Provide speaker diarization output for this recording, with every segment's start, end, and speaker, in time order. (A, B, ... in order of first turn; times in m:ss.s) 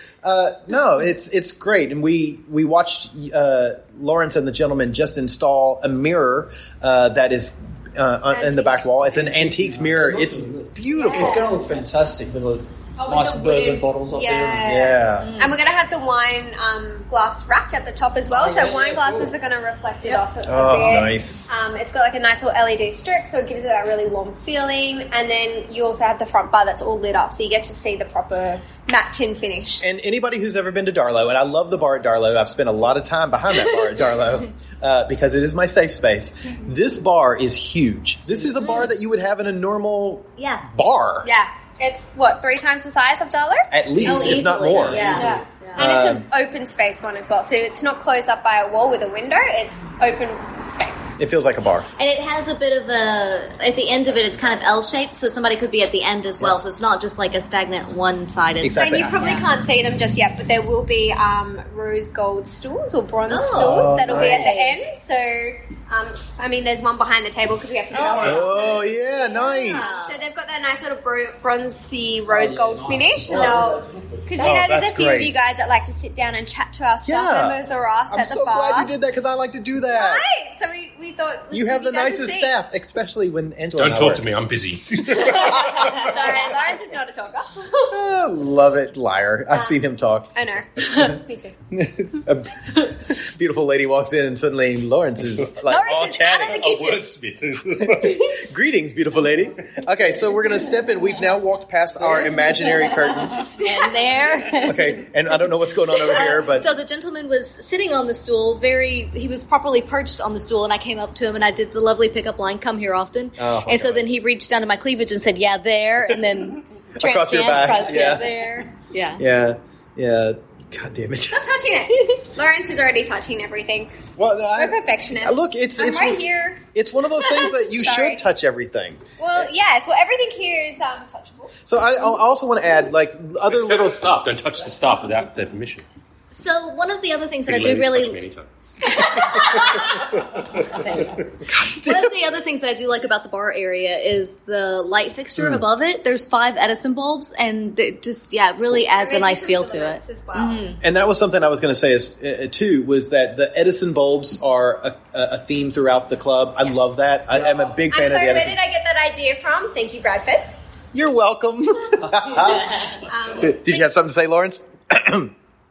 0:00.2-0:11.4 A
0:08.3-0:08.9 B
0:09.0-0:14.8 C
0:10.9-0:11.5 B
0:13.0-0:29.8 B
0:14.6-0:15.4 A
0:15.1-0:15.6 D
0:18.3-0:19.3 C
0:20.4-0:21.4 A
0:29.8-0:41.3 A
0:38.4-0:38.9 D
0:40.4-0:40.6 D
0:41.2-0:51.2 B
0:43.7-0:46.3 A
0:44.0-0:45.8 D
0:44.0-0:45.3 C
0:51.2-0:51.9 A
0:52.0-0:59.5 D
0:58.6-0:59.2 A
0:58.7-1:18.9 B
1:03.3-1:05.1 D
1:03.5-1:04.8 A
1:07.9-1:08.4 E
1:08.0-1:08.3 D
1:08.2-1:10.0 A
1:09.3-1:10.2 D
1:12.3-1:14.6 C
1:13.3-1:13.6 D
1:14.4-1:15.3 A
1:17.0-1:17.6 A
1:18.1-1:20.2 A
1:19.9-1:22.5 B
1:21.5-1:24.2 A
1:23.8-1:26.1 E
1:25.1-1:27.9 B
1:27.9-1:30.3 A
1:29.5-1:29.8 B
1:30.3-1:31.6 B
1:31.7-1:36.6 A
1:35.6-1:37.0 B
1:36.4-1:38.2 E
1:37.8-1:43.5 A
1:42.6-1:45.4 D
1:43.6-1:44.1 B
1:44.6-1:46.7 A
1:45.9-1:59.2 D
1:53.4-1:54.0 A
1:57.0-1:58.3 A
1:59.2-2:01.5 A
2:01.3-2:04.0 B
2:04.2-2:09.0 A
2:04.6-2:06.6 B
2:07.2-2:08.2 B
2:09.2-2:11.5 B
2:11.6-2:14.1 A
2:13.5-2:15.8 E
2:16.3-2:18.2 D
2:17.5-2:18.5 E
2:18.9-2:19.7 B
2:19.2-2:20.0 E
2:20.7-2:21.2 D
2:21.4-2:22.1 A
2:21.8-2:30.8 D
2:28.9-2:30.6 B
2:30.8-2:38.6 A
2:37.3-2:37.7 C
2:37.9-2:40.5 B
2:40.9-2:42.8 A
2:43.1-2:43.9 B
2:43.4-2:45.3 A